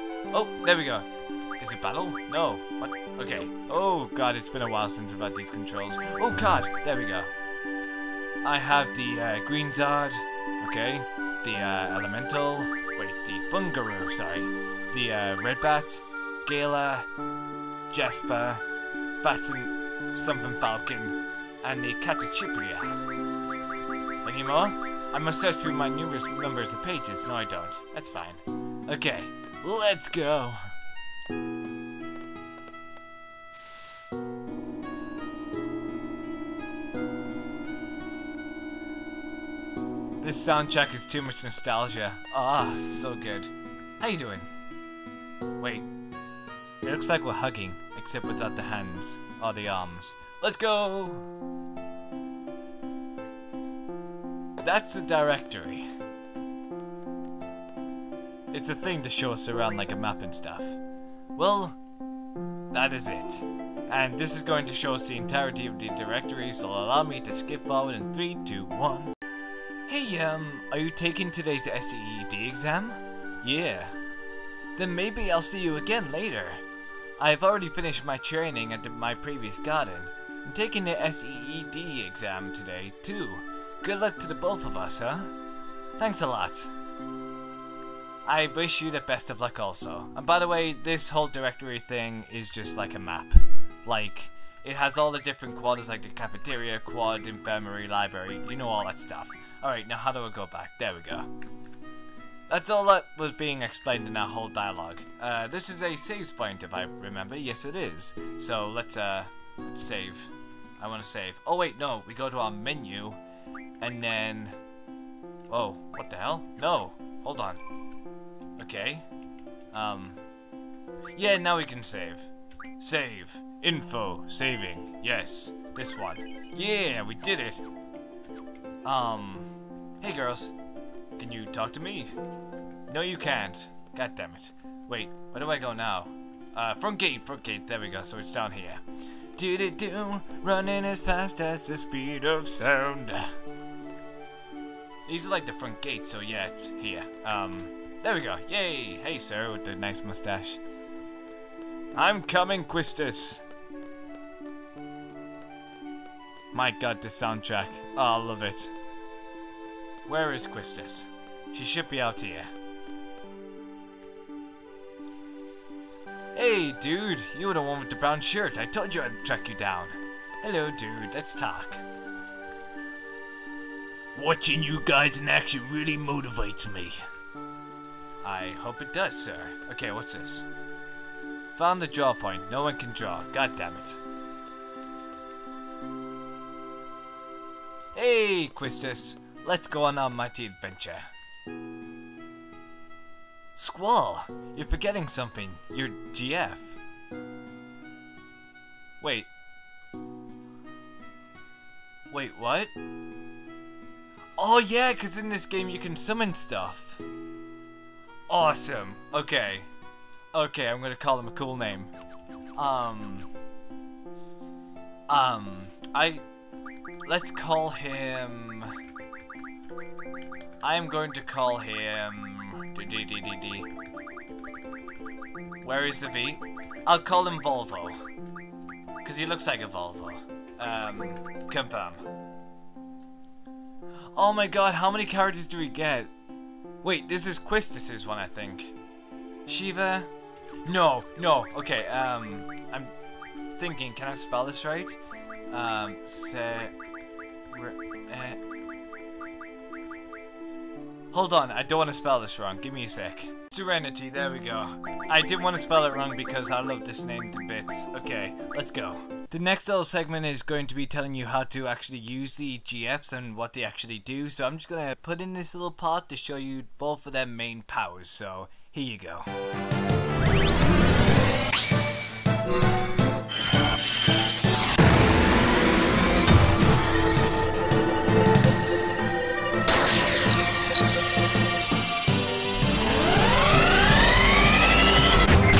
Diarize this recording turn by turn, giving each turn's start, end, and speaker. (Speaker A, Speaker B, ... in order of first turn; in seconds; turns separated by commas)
Speaker A: 0.3-7.3, Speaker A: 8.4-17.1, Speaker A: 17.9-18.6, Speaker A: 19.2-23.0, Speaker A: 24.2-30.7, Speaker A: 40.2-44.5, Speaker A: 45.6-45.9, Speaker A: 46.8-51.2, Speaker A: 54.6-55.9, Speaker A: 58.5-60.8, Speaker A: 61.4-61.8, Speaker A: 62.7-69.1, Speaker A: 69.8-74.0, Speaker A: 74.7-76.6, Speaker A: 77.2-85.3, Speaker A: 86.0-86.7, Speaker A: 88.2-101.3, Speaker A: 102.5-113.2, Speaker A: 113.8-114.6, Speaker A: 115.5-117.6, Speaker A: 118.6-119.1, Speaker A: 119.7-120.2, Speaker A: 121.1-127.6, Speaker A: 128.8-130.5, Speaker A: 131.2-132.2, Speaker A: 132.9-138.8, Speaker A: 139.3-143.3, Speaker A: 145.1-150.6, Speaker A: 151.9-153.4, Speaker A: 156.5-158.7, Speaker A: 160.0-162.5, Speaker A: 166.3-171.8, Speaker A: 174.1-177.0, Speaker A: 178.2-180.5, Speaker A: 181.5-184.0, Speaker A: 187.9-191.1, Speaker A: 193.6-196.8, Speaker A: 199.0-199.3, Speaker A: 202.1-202.7, Speaker A: 204.4-207.0, Speaker A: 208.3-209.7, Speaker A: 210.3-211.9, Speaker A: 212.6-213.3, Speaker A: 215.1-216.2, Speaker A: 217.0-218.8, Speaker A: 220.6-223.7, Speaker A: 225.6-228.0, Speaker A: 229.0-232.1, Speaker A: 234.1-236.1, Speaker A: 236.8-238.8, Speaker A: 239.4-240.1, Speaker A: 240.6-242.9, Speaker A: 243.6-245.0, Speaker A: 245.5-246.7, Speaker A: 247.5-248.4, Speaker A: 251.1-269.3